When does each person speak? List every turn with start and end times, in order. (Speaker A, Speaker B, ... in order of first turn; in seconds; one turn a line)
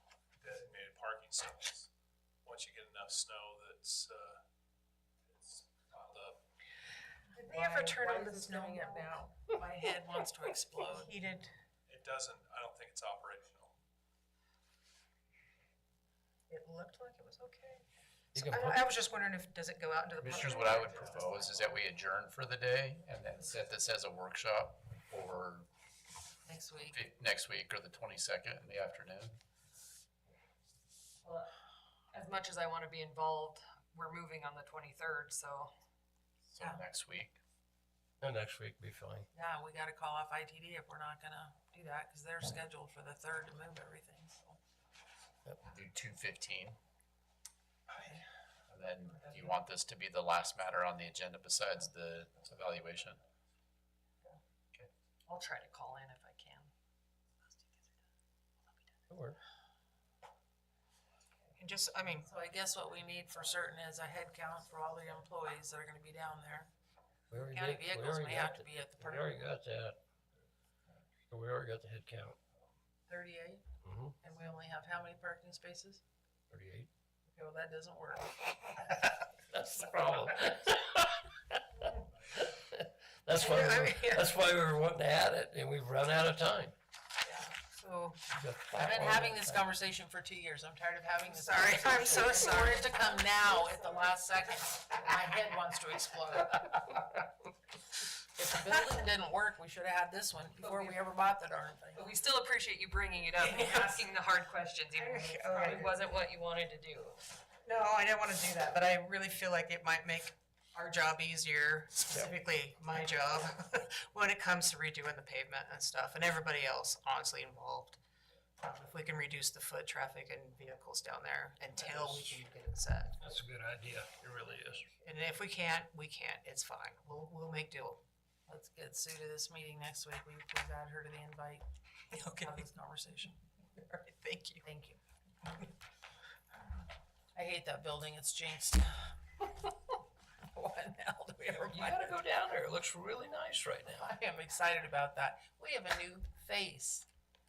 Speaker A: 0.4-1.9
Speaker A: 2.4-4.4
Speaker A: 5.3-6.4
Speaker B: 7.4-9.3
Speaker C: 7.4-11.1
Speaker B: 10.8-11.5
Speaker A: 11.9-13.8
Speaker B: 16.5-17.8
Speaker D: 18.3-18.9
Speaker B: 18.4-21.6
Speaker E: 20.2-25.7
Speaker C: 26.5-27.0
Speaker E: 26.8-29.4
Speaker F: 32.1-35.7
Speaker E: 36.5-37.4
Speaker D: 38.2-39.3
Speaker C: 39.3-44.6
Speaker E: 45.6-46.8
Speaker E: 48.7-53.2
Speaker F: 55.3-56.7
Speaker D: 59.1-59.4
Speaker B: 61.6-62.3
Speaker C: 62.2-66.7
Speaker D: 67.3-70.0
Speaker C: 67.4-69.4
Speaker D: 71.3-72.4
Speaker C: 73.1-73.6
Speaker D: 73.8-74.2
Speaker C: 74.2-76.0
Speaker D: 76.5-76.9
Speaker C: 77.3-78.9
Speaker D: 79.5-81.6
Speaker D: 82.3-86.8
Speaker B: 83.4-84.3
Speaker B: 87.3-88.1
Speaker D: 88.3-89.7
Speaker C: 88.7-97.0
Speaker B: 91.2-93.1
Speaker C: 98.2-102.1
Speaker F: 102.0-107.2
Speaker B: 103.4-104.0
Speaker B: 105.0-106.0
Speaker B: 107.6-118.0
Speaker B: 118.6-123.2
Speaker D: 123.2-124.9
Speaker B: 125.0-128.0
Speaker C: 128.5-133.4
Speaker B: 132.1-132.7
Speaker B: 133.8-134.6
Speaker C: 134.6-135.0
Speaker C: 137.3-139.7
Speaker C: 140.5-142.2
Speaker D: 141.7-144.1
Speaker C: 143.9-147.1